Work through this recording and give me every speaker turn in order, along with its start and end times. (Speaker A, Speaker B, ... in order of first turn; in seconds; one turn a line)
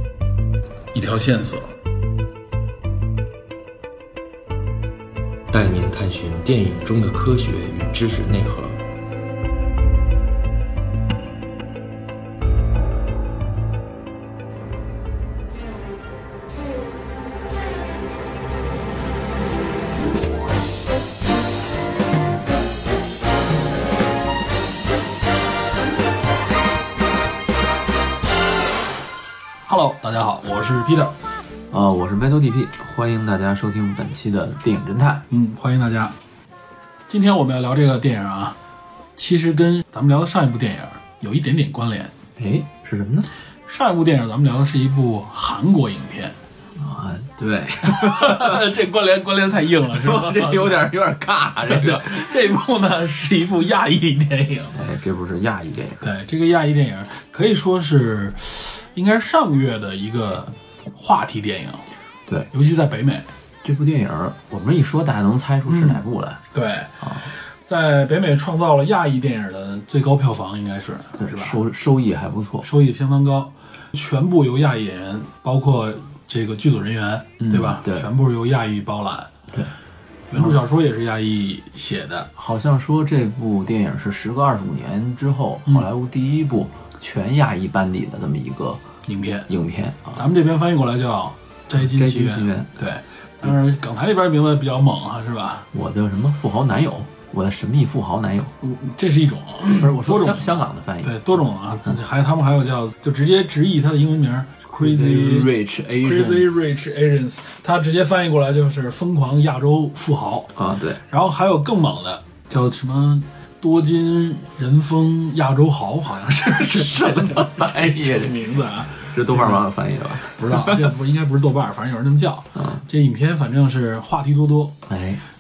Speaker A: 0.9-1.7
Speaker B: 5.5-8.8
Speaker A: 29.6-31.1
Speaker C: 31.7-35.2
Speaker A: 35.3-36.1
Speaker A: 37.1-38.6
Speaker A: 39.2-42.1
Speaker C: 42.4-43.3
Speaker A: 43.7-46.3
Speaker C: 46.8-48.7
Speaker A: 47.8-50.8
Speaker C: 49.9-52.3
Speaker A: 51.6-54.7
Speaker C: 54.7-56.0
Speaker A: 56.0-61.8
Speaker A: 62.5-63.3
Speaker C: 63.6-66.4
Speaker A: 65.7-66.0
Speaker A: 66.5-66.9
Speaker C: 67.0-67.3
Speaker A: 67.7-71.6
Speaker C: 71.1-72.7
Speaker A: 72.6-79.3
Speaker C: 77.4-78.1
Speaker A: 80.3-82.3
Speaker C: 82.3-88.8
Speaker A: 89.0-89.5
Speaker C: 89.5-90.2
Speaker A: 90.1-95.7
Speaker C: 91.7-92.7
Speaker C: 95.7-98.5
Speaker A: 98.6-110.5
Speaker C: 99.8-101.3
Speaker C: 104.7-106.6
Speaker C: 110.5-111.0
Speaker A: 111.1-119.6
Speaker C: 116.6-118.4
Speaker C: 119.0-120.9
Speaker A: 120.3-124.8
Speaker C: 122.5-122.8
Speaker C: 124.8-125.2